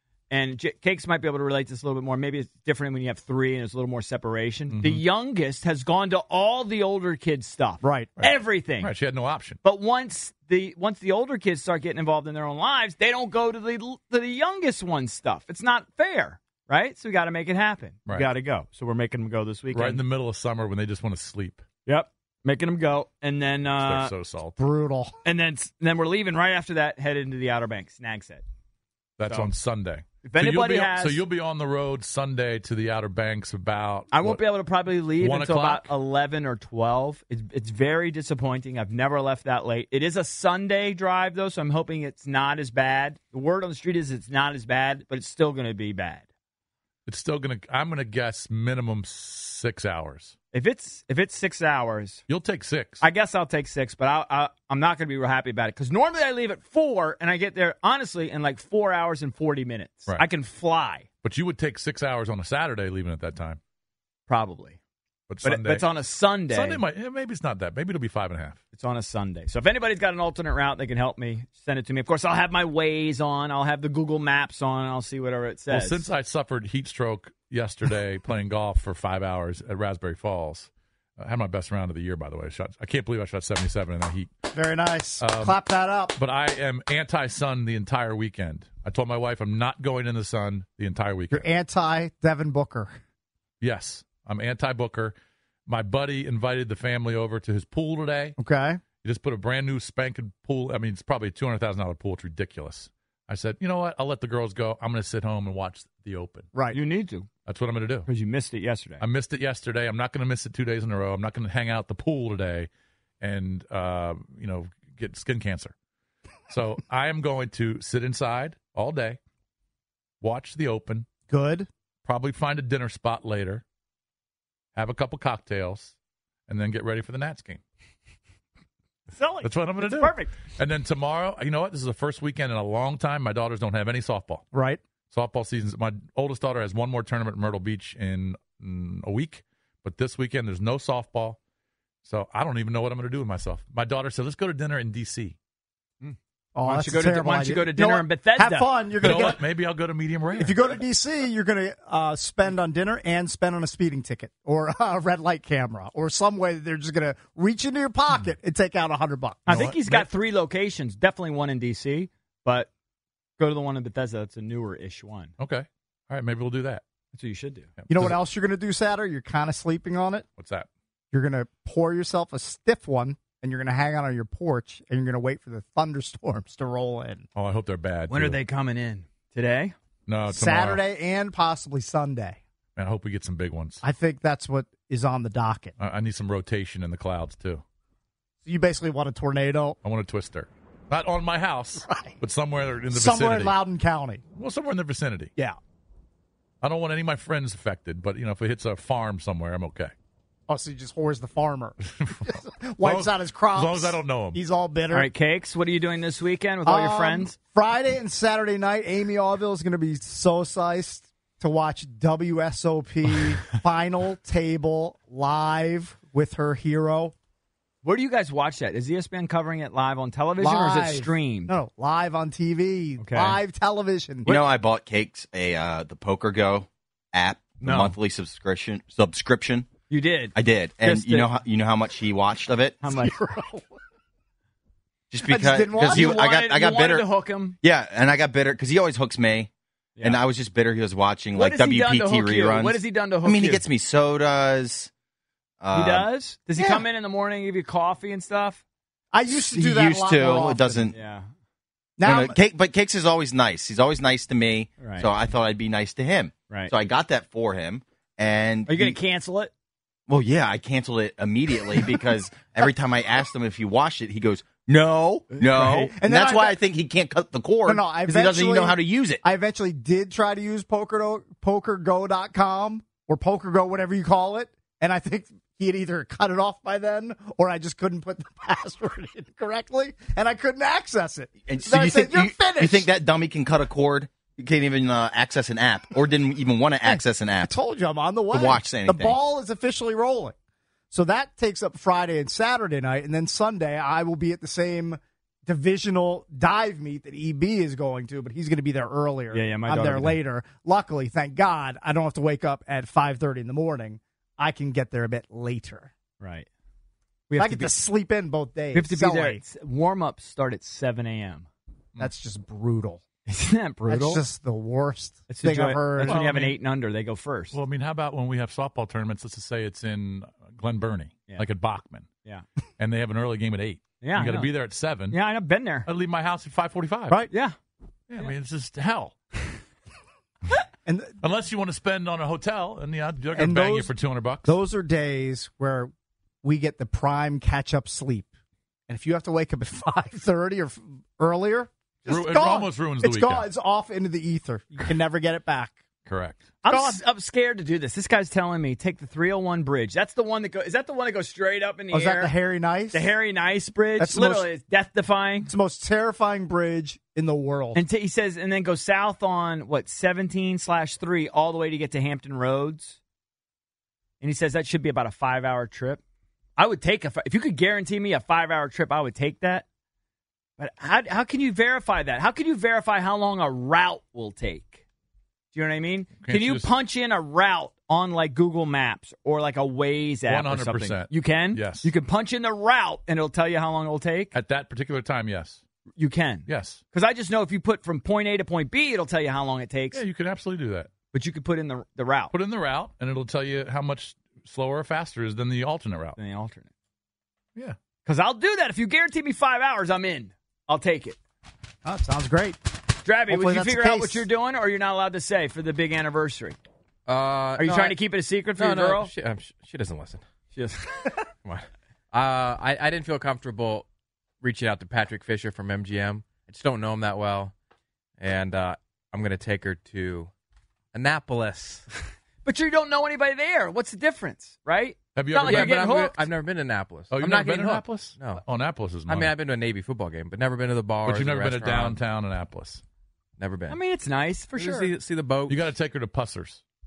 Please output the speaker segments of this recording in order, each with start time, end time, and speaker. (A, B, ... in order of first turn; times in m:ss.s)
0:00.3-0:08.9 A
0:04.7-0:05.0 B
0:07.8-0:08.1 C
0:08.2-0:09.6 B
0:09.6-0:20.0 A
0:19.7-0:21.6 B
0:21.8-0:24.1 A
0:23.8-0:24.6 B
0:24.6-0:25.2 C
0:25.2-0:28.4 A
0:29.2-0:34.4 B
0:29.2-0:29.5 A
0:30.2-0:31.2 A
0:34.1-0:46.2 A
0:35.2-0:35.9 B
0:47.0-0:50.4 B
0:50.5-0:52.2 A
0:52.3-0:53.0 B
0:53.0-1:01.1 A
1:01.2-1:03.6 B
1:04.3-1:04.8 A
1:05.3-1:05.8 B
1:05.4-1:06.8 A
1:06.5-1:08.6 B
1:08.7-1:16.1 A
1:15.7-1:24.3 B
1:24.5-1:26.2 C
1:25.2-1:25.6 B
1:26.1-1:31.5 B
1:31.3-1:32.9 C
1:33.6-1:35.1 B
1:35.7-1:38.4 B
1:38.4-1:38.8 C
1:39.0-1:46.5 B
1:46.5-1:46.8 C
1:46.7-1:47.3 A
1:47.4-1:48.1 B
1:48.0-1:49.0 A
1:49.0-1:52.7 B
1:53.2-1:55.7 B
1:56.5-1:59.2 B
2:00.2-2:01.1 B
2:01.3-2:01.7 C
2:02.0-2:03.6 B
2:04.7-2:06.0 B
2:06.5-2:07.6 B
2:09.1-2:10.3 A
2:09.4-2:14.4 B
2:14.5-2:14.8 C
2:15.1-2:21.4 B
2:22.0-2:25.4 B
2:26.0-2:28.7 A
2:26.5-2:29.4 C
2:29.0-2:30.7 B
2:30.3-2:39.7 C
2:39.4-2:42.7 A
2:39.5-2:40.1 B
2:43.4-2:45.3 A
2:45.4-2:46.8 B
2:47.1-2:47.7 A
2:47.8-2:48.2 B
2:47.9-2:50.2 C
2:50.4-2:50.7 B
2:51.1-2:57.3 C
2:57.3-2:58.4 B
2:58.1-2:59.7 A
3:00.1-3:00.8 B
3:00.3-3:02.4 C
3:02.8-3:03.8 B
3:03.8-3:05.7 C
3:05.8-3:07.6 B
3:08.4-3:09.8 C
3:09.8-3:13.6 B
3:11.8-3:12.2 C
3:12.9-3:14.2 C
3:14.3-3:15.3 B
3:16.6-3:19.9 B
3:20.5-3:25.1 C
3:21.9-3:24.4 B
3:24.9-3:27.4 A
3:26.6-3:37.1 C
3:37.8-3:41.5 A
3:40.4-3:44.4 C
3:43.0-3:43.4 A
3:44.2-3:49.7 D
3:47.6-3:48.0 A
3:49.9-3:51.4 A
3:50.3-3:52.8 D
3:52.8-3:53.1 A
3:52.8-3:53.7 C
3:55.1-3:57.1 D
3:55.2-3:56.2 C
3:55.7-3:57.6 A
3:57.6-3:59.5 D
4:00.0-4:04.9 D
4:01.3-4:03.6 A
4:05.6-4:06.1 D
4:05.7-4:08.6 A
4:06.6-4:06.8 C
4:09.1-4:10.9 C
4:09.3-4:10.9 D
4:10.9-4:11.3 A
4:12.0-4:12.4 C
4:12.0-4:19.0 D
4:14.8-4:15.1 A
4:16.5-4:16.7 A
4:18.7-4:19.5 A
4:20.1-4:29.2 D
4:25.6-4:25.9 A
4:25.6-4:26.6 C
4:27.6-4:42.9 C
4:41.5-4:47.5 D
4:46.8-4:50.3 C
4:48.3-4:49.2 D
4:50.9-5:05.9 C
4:59.3-5:00.2 A
5:06.2-5:06.5 A
5:07.3-5:07.7 A
5:07.3-5:09.4 C
5:08.7-5:11.5 A
5:12.0-5:13.0 C
5:13.2-5:14.2 A
5:13.9-5:16.2 C
5:15.3-5:17.6 A
5:16.0-5:16.6 B
5:17.5-5:22.1 B
5:22.8-5:25.2 B
5:24.0-5:24.5 A
5:25.1-5:25.9 A
5:25.8-5:27.2 B
5:27.3-5:27.6 A
5:28.1-5:29.1 B
5:30.8-5:31.2 C
5:31.2-5:34.6 B
5:33.3-5:33.9 C
5:34.4-5:35.9 C
5:36.4-5:38.3 C
5:38.9-5:45.8 C
5:42.1-5:43.5 B
5:46.0-5:46.4 B
5:46.6-5:52.3 A
5:46.7-5:47.0 C
5:51.9-5:53.1 C
5:52.9-5:55.5 A
5:54.0-5:54.5 C
5:55.5-5:57.8 C
5:57.7-6:03.0 A
6:04.2-6:06.0 A
6:06.6-6:09.6 A
6:10.6-6:14.8 A
6:15.5-6:24.3 A
6:16.2-6:16.7 B
6:20.3-6:21.9 B
6:24.3-6:25.6 B
6:26.0-6:30.0 A
6:26.4-6:26.8 B
6:29.9-6:30.9 B
6:31.1-6:32.3 A
6:32.3-6:36.2 B
6:36.2-6:36.7 A
6:38.0-6:41.2 A
6:41.8-6:42.6 C
6:43.0-6:46.6 A
6:43.3-6:44.3 C
6:47.0-6:48.0 E
6:47.6-6:49.1 A
6:48.6-6:50.2 E
6:50.5-6:51.2 A
6:51.4-6:53.9 E
6:54.4-6:57.5 E
6:58.2-7:00.3 E
7:00.9-7:01.8 E
7:02.4-7:06.2 A
7:05.1-7:05.8 B
7:05.4-7:08.4 E
7:07.1-7:09.3 B
7:09.1-7:12.0 E
7:11.0-7:12.8 B
7:13.4-7:13.8 E
7:13.7-7:14.9 A
7:14.5-7:15.6 E
7:15.5-7:16.6 B